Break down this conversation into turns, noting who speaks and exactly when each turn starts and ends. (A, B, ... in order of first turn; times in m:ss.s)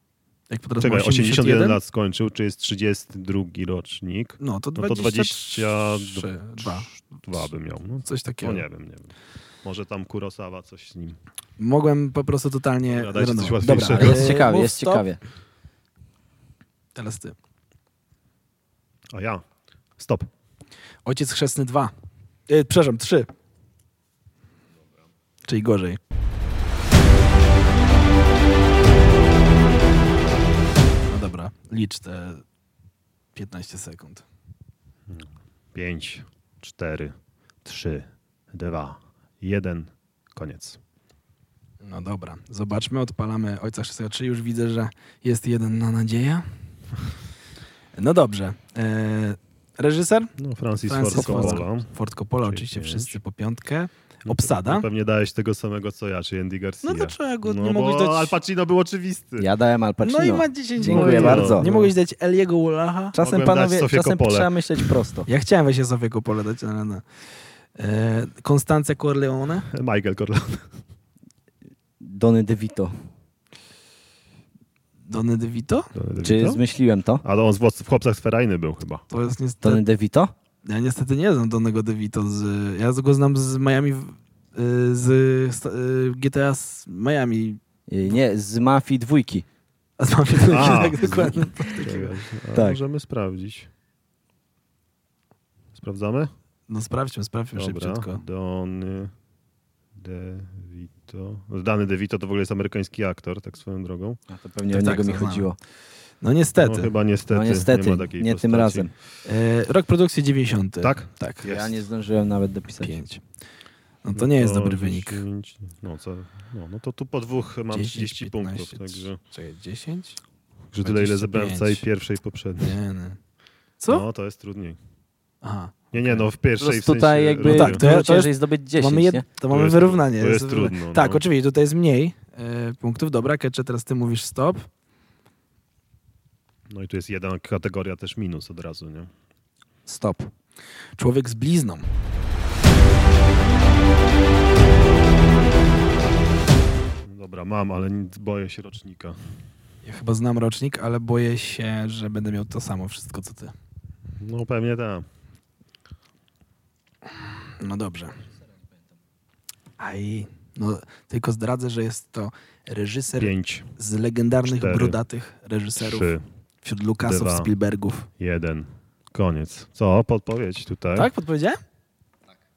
0:00.5-0:01.8 A
0:00.8-0:09.1 B
0:04.4-0:07.5 A
0:08.0-0:08.7 A
0:09.6-0:11.2 B
0:11.6-0:15.0 A
0:12.9-0:14.4 B
0:13.6-0:15.2 C
0:17.0-0:17.4 A
0:19.1-0:19.4 B
0:20.0-0:20.3 B
0:21.0-0:21.9 A
0:22.5-0:23.3 A
0:25.5-0:26.0 A
0:31.1-0:32.4 A
0:33.4-0:34.2 A
0:35.1-0:40.8 B
0:41.8-0:46.4 A
0:48.0-0:50.3 A
0:50.4-0:53.2 B
0:50.9-0:54.8 A
0:51.1-0:51.6 C
0:54.3-0:59.5 B
0:56.8-0:58.4 A
0:59.4-1:01.7 C
1:00.0-1:03.2 A
1:00.8-1:01.9 B
1:03.1-1:05.3 C
1:03.2-1:05.0 B
1:05.3-1:07.0 A
1:07.8-1:09.7 A
1:09.7-1:10.6 B
1:12.0-1:12.9 C
1:15.1-1:15.9 A
1:15.9-1:16.6 B
1:16.2-1:17.2 C
1:17.2-1:19.1 B
1:19.1-1:19.8 A
1:19.6-1:20.3 C
1:20.6-1:27.6 A
1:27.9-1:29.4 C
1:30.0-1:32.1 A
1:30.5-1:33.7 B
1:31.0-1:31.7 C
1:32.5-1:32.8 C
1:35.8-1:36.3 B
1:36.7-1:38.2 A
1:37.6-1:39.1 B
1:40.0-1:44.2 B
1:44.3-1:45.6 C
1:44.7-1:45.5 A
1:46.2-1:46.9 A
1:46.6-1:48.9 B
1:47.3-1:48.9 C
1:49.2-1:51.7 A
1:50.8-1:51.1 B
1:51.4-1:53.0 C
1:52.8-1:53.2 A
1:54.0-1:55.2 A
1:54.2-1:59.2 B
1:57.7-2:00.2 A
2:00.7-2:02.8 B
2:00.8-2:01.8 A
2:02.6-2:03.2 A
2:03.8-2:04.0 A
2:03.9-2:04.8 B
2:05.4-2:06.2 A
2:05.9-2:07.8 B
2:06.6-2:09.3 C
2:07.4-2:14.7 A
2:09.4-2:11.2 B
2:16.7-2:19.1 B
2:19.9-2:20.3 C
2:21.0-2:21.8 A
2:27.1-2:29.2 B
2:29.8-2:33.5 A
2:34.2-2:35.0 B
2:37.6-2:38.2 A
2:39.8-2:48.1 A
2:43.1-2:43.7 B
2:44.4-2:45.0 B
2:45.8-2:46.2 B
2:47.0-2:47.5 B
2:48.2-2:51.1 B
2:51.0-2:51.6 A